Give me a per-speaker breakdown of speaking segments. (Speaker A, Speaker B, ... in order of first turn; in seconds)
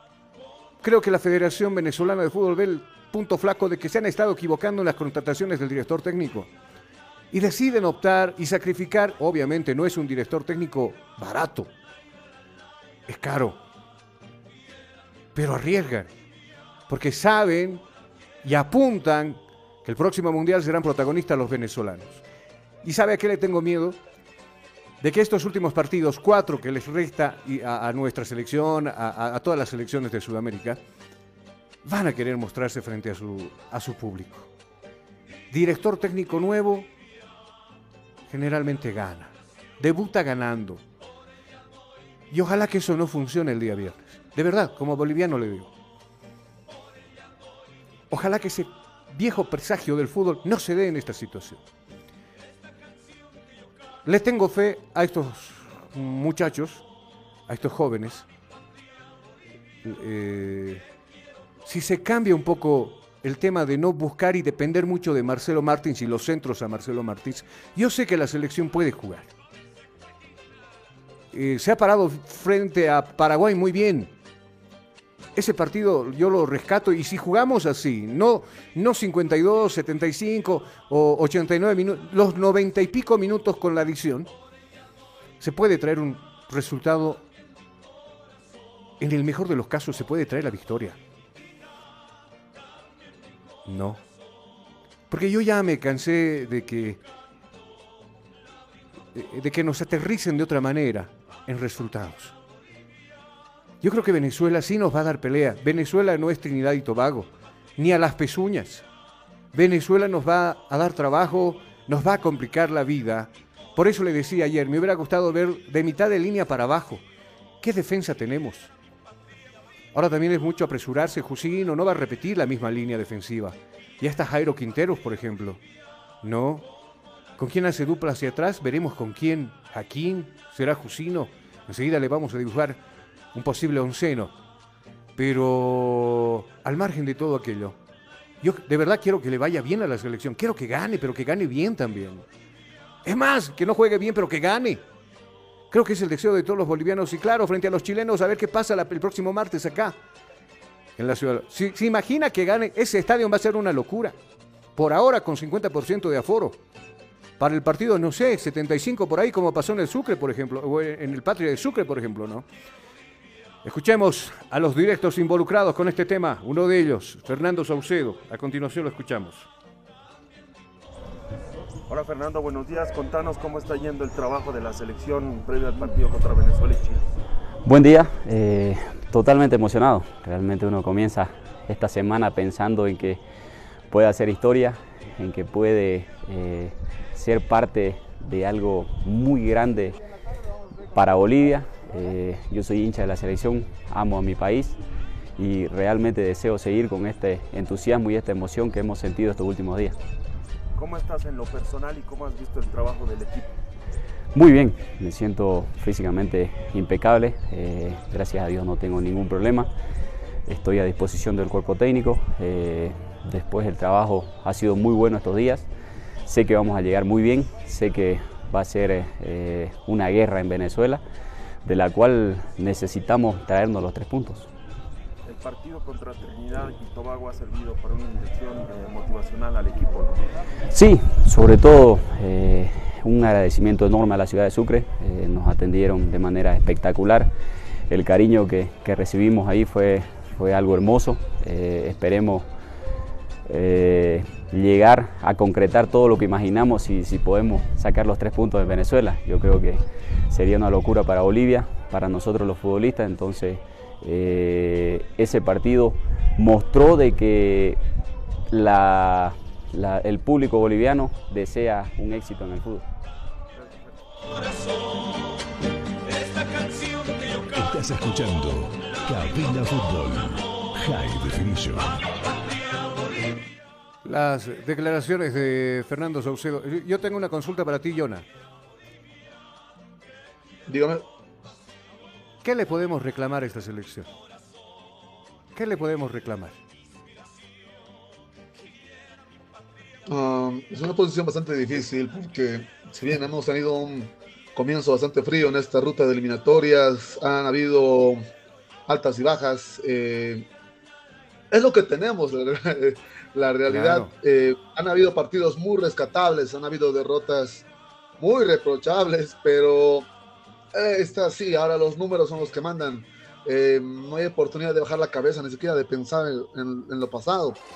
Speaker A: 0.8-6.5, 7.3-11.7, 13.1-13.6, 15.3-16.1, 16.9-17.8, 18.4-22.2, 22.8-24.0, 25.0-30.8, 31.8-34.5, 35.5-36.9, 38.3-40.8, 42.3-45.7, 48.1-51.6, 54.0-56.8, 57.5-58.2, 59.8-60.8, 61.6-69.3, 71.3-74.1, 75.3-84.3, 85.4-87.2, 89.0-91.0, 93.7-94.0, 95.1-97.0, 99.1-102.3, 103.8-108.8, 109.5-117.0, 117.6-118.7, 119.9-125.6, 126.2-126.7, 127.4-132.8, 133.3-134.3, 135.2-137.8, 138.4-142.2, 143.0-144.8, 145.7-150.0, 151.0-154.2, 154.8-156.6, 157.4-162.4, 163.6-169.5, 274.0-278.2, 282.4-284.1, 285.5-286.6, 303.7-304.1
Speaker B: 171.9-177.0, 200.7-203.5, 225.2-230.2
Speaker C: 177.6-183.2, 183.9-190.0, 190.9-194.8, 195.4-200.0, 204.3-209.7, 210.4-215.7, 216.2-221.0, 221.6-224.5, 230.7-237.3, 237.9-242.5, 243.4-257.8, 258.5-262.8
Speaker D: 267.4-272.0
Speaker E: 280.7-281.0, 290.1-298.2, 298.9-300.4, 301.5-307.6, 308.2-310.1, 310.7-317.6